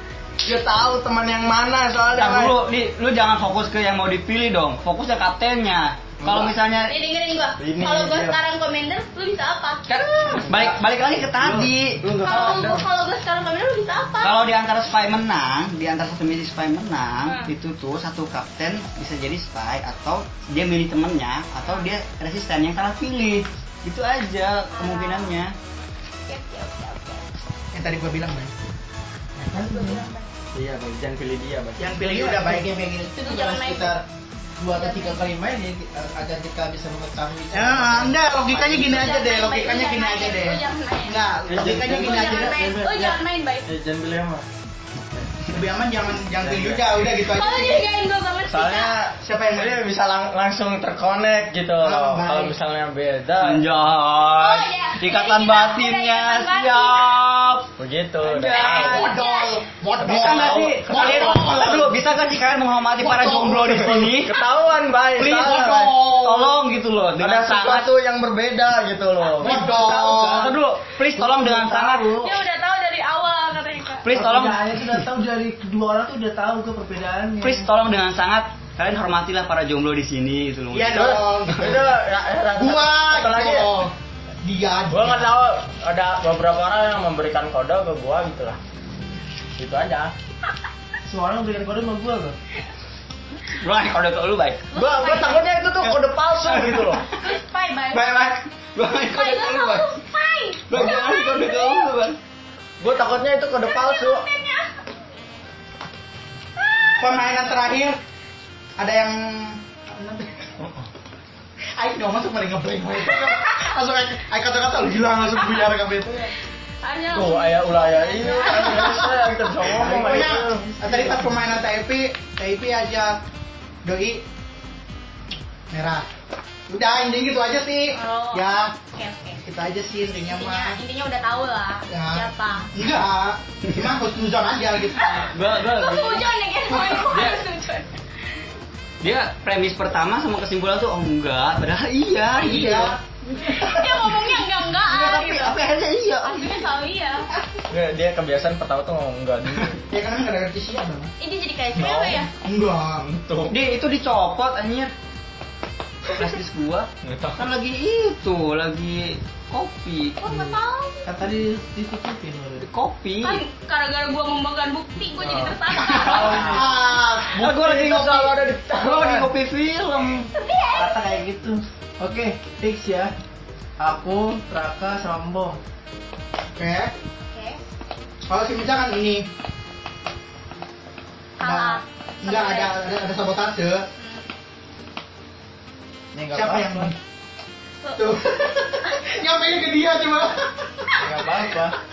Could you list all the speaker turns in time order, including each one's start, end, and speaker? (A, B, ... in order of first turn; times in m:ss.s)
0:00.4-0:02.6 A
0:02.1-0:06.9 B
0:06.2-0:06.6 A
0:06.9-0:10.4 C
0:07.6-0:08.4 A
0:09.9-0:12.8 A
0:09.9-0:12.6 B
0:12.2-0:14.4 C
0:14.2-0:25.5 B
0:17.2-0:17.5 C
0:24.7-0:25.4 C
0:26.3-0:27.3 C
0:27.7-0:28.5 D
0:29.4-0:30.0 E
0:29.4-0:30.3 C
0:30.5-0:31.9 A
0:31.8-0:32.7 D
0:32.0-0:34.0 E
0:33.2-0:34.0 C
0:34.6-0:39.0 E
0:34.7-0:35.2 C
0:37.5-0:42.5 D
0:38.8-0:41.2 C
0:41.5-0:42.5 A
0:41.5-0:43.2 E
0:41.9-0:43.7 C
0:43.6-0:44.4 A
0:45.5-0:47.8 D
0:46.4-0:47.0 A
0:47.2-0:49.0 C
0:48.5-0:53.7 A
0:49.2-0:49.8 D
0:51.8-0:52.5 D
0:53.4-0:57.7 B
0:54.4-0:57.2 C
0:57.8-0:59.1 A
0:58.2-0:59.0 B
0:58.3-0:59.6 C
0:58.7-1:01.9 D
1:00.0-1:01.8 A
1:00.0-1:04.4 B
1:03.0-1:04.0 D
1:03.4-1:06.1 A
1:05.2-1:07.9 B
1:05.3-1:06.5 D
1:07.2-1:09.7 A
1:09.4-1:10.5 D
1:09.4-1:10.4 E
1:09.9-1:12.1 B
1:11.1-1:12.4 E
1:12.2-1:14.0 C
1:14.0-1:14.9 B
1:14.1-1:17.7 E
1:17.4-1:21.7 B
1:20.7-1:21.9 D
1:21.0-1:23.8 A
1:22.5-1:25.3 D
1:24.9-1:28.6 A
1:29.6-1:30.1 A
1:31.0-1:32.4 E
1:33.5-1:34.7 B
1:34.7-1:35.5 C
1:34.7-1:37.0 A
1:36.4-1:37.1 B
1:37.1-1:38.2 C
1:37.9-1:39.9 B
1:39.1-1:41.9 C
1:40.7-1:42.2 B
1:42.8-1:44.2 A
1:43.6-1:44.7 C
1:46.6-1:47.3 C
1:47.0-1:48.0 D
1:48.8-1:50.3 D
1:51.8-1:56.3 D
1:53.2-1:53.6 C
1:56.8-1:59.5 C
1:57.1-2:00.7 A
1:58.5-1:59.0 D
1:59.7-2:03.2 D
1:59.8-2:01.3 E
2:03.8-2:04.2 D
2:05.7-2:06.0 D
2:06.7-2:08.7 D
2:08.0-2:09.4 C
2:09.4-2:10.8 D
2:10.3-2:12.7 C
2:11.9-2:15.3 D
2:15.0-2:17.9 C
2:15.3-2:16.3 B
2:16.8-2:17.4 B
2:19.0-2:23.0 B
2:22.4-2:23.0 D
2:23.3-2:25.6 C
2:24.8-2:26.6 B
2:26.2-2:27.3 C
2:27.7-2:29.8 A
2:29.9-2:31.1 D
2:31.2-2:32.3 C
2:31.8-2:32.3 A
2:32.4-2:33.1 D
2:33.0-2:33.6 A
2:33.5-2:34.9 B
2:36.1-2:40.3 B
2:37.0-2:37.5 A
2:40.2-2:41.1 C
2:41.0-2:42.6 E
2:42.6-2:43.4 B
2:43.2-2:46.4 C
2:46.0-2:46.7 A
2:46.0-2:46.7 E
2:46.4-2:47.4 D
2:47.3-2:49.3 A
2:47.3-2:50.3 B
2:50.3-2:50.9 C
2:50.7-2:53.1 E
2:53.8-2:55.6 E
2:56.6-2:56.9 D
2:57.3-2:57.6 C
2:58.3-2:59.2 D
3:01.4-3:02.7 C
3:01.4-3:03.8 D
3:04.0-3:04.2 C
3:06.1-3:06.9 E
3:06.3-3:06.9 D
3:07.8-3:09.2 C
3:07.9-3:10.5 D
3:11.0-3:11.8 E